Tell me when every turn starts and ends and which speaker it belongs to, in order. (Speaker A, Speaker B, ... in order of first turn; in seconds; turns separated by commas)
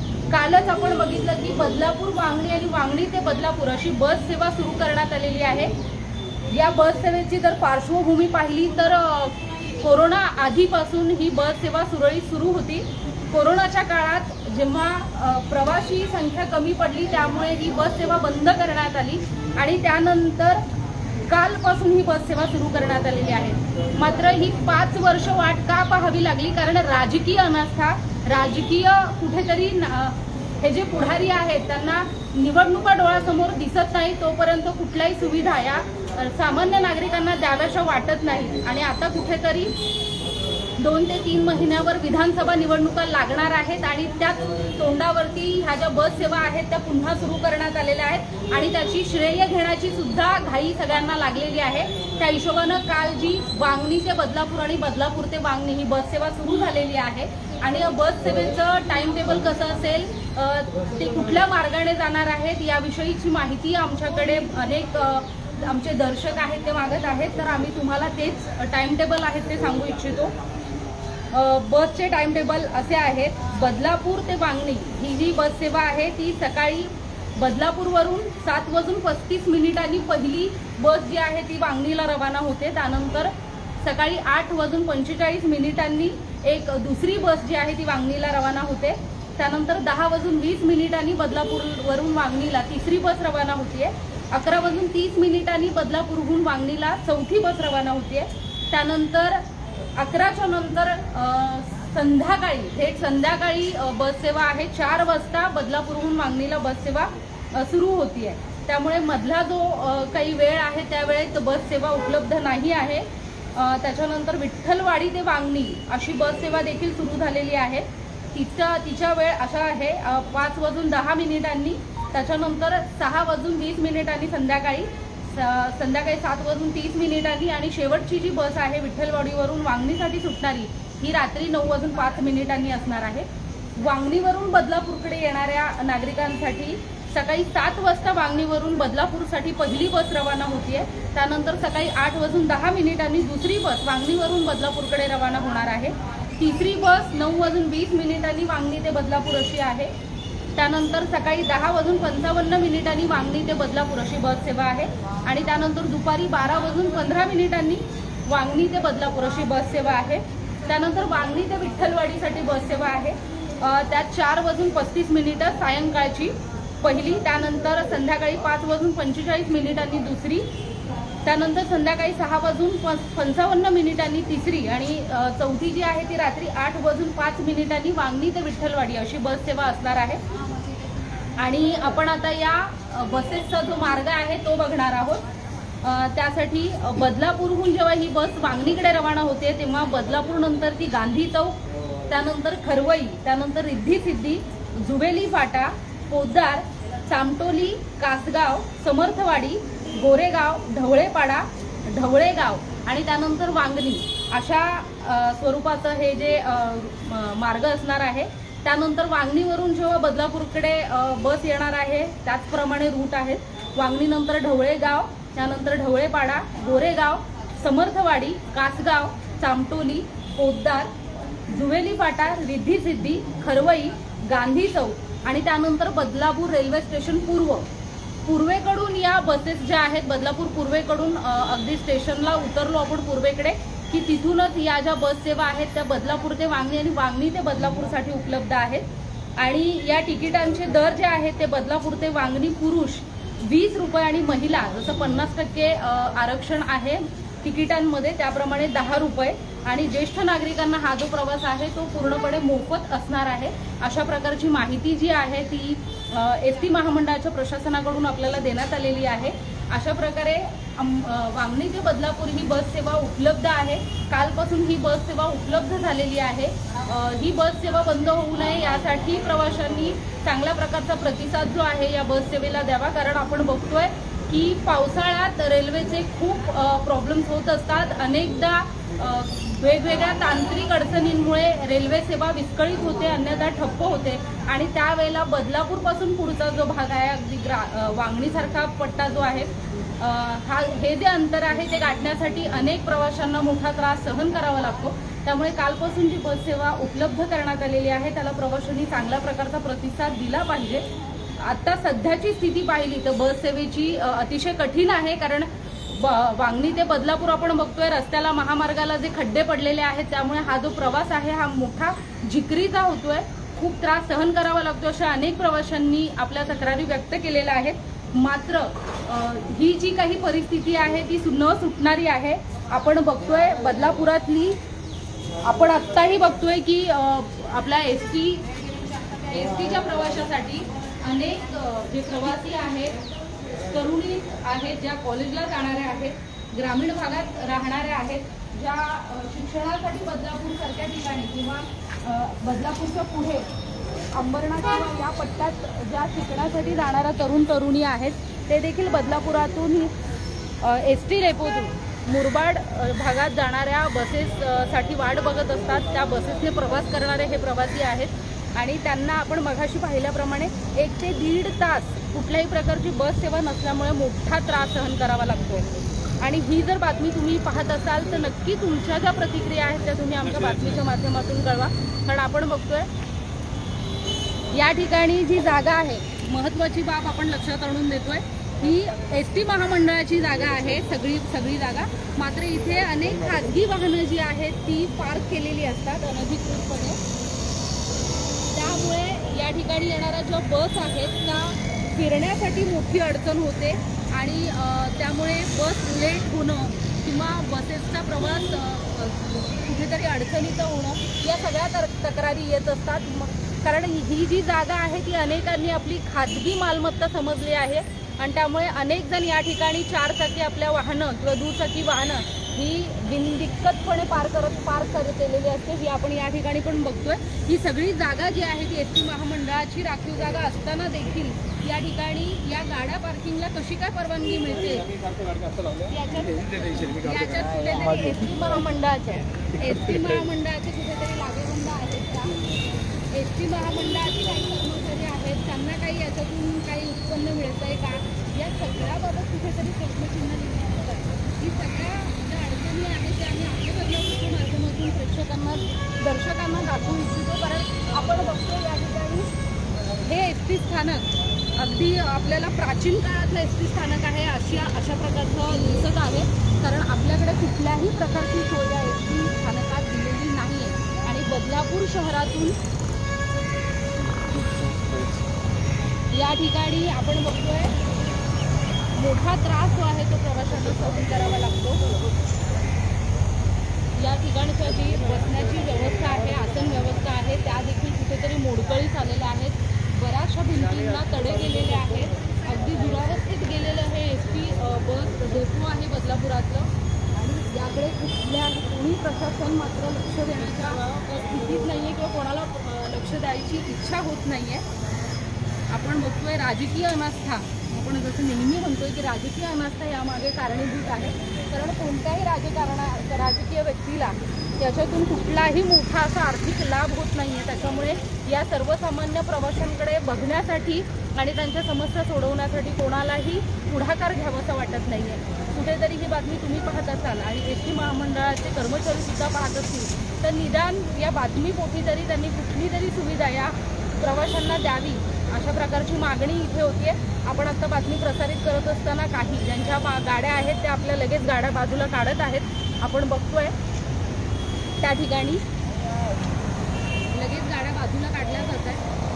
Speaker A: 0.3-5.7, Speaker A: 6.5-20.6, Speaker A: 21.3-39.7, Speaker A: 40.8-70.3, Speaker A: 71.3-83.3, Speaker A: 83.8-99.4, Speaker A: 100.0-133.2, Speaker A: 133.8-149.9, Speaker A: 150.6-170.4, Speaker A: 171.2-180.2, Speaker A: 181.4-185.2, Speaker A: 185.8-191.6, Speaker A: 192.1-220.9, Speaker A: 221.5-227.7, Speaker A: 228.2-238.8, Speaker A: 239.4-289.5, Speaker A: 290.0-300.8, Speaker A: 301.4-324.6, Speaker A: 325.4-328.5, Speaker A: 329.1-332.9, Speaker A: 333.6-343.5, Speaker A: 344.1-349.9, Speaker A: 350.6-365.6, Speaker A: 366.2-372.9, Speaker A: 374.5-387.0, Speaker A: 388.5-424.9, Speaker A: 425.7-432.4, Speaker A: 433.1-449.3, Speaker A: 450.0-462.5, Speaker A: 466.1-467.7, Speaker A: 468.9-471.8, Speaker A: 473.9-494.6, Speaker A: 495.7-533.5, Speaker A: 534.8-535.4, Speaker A: 537.1-538.8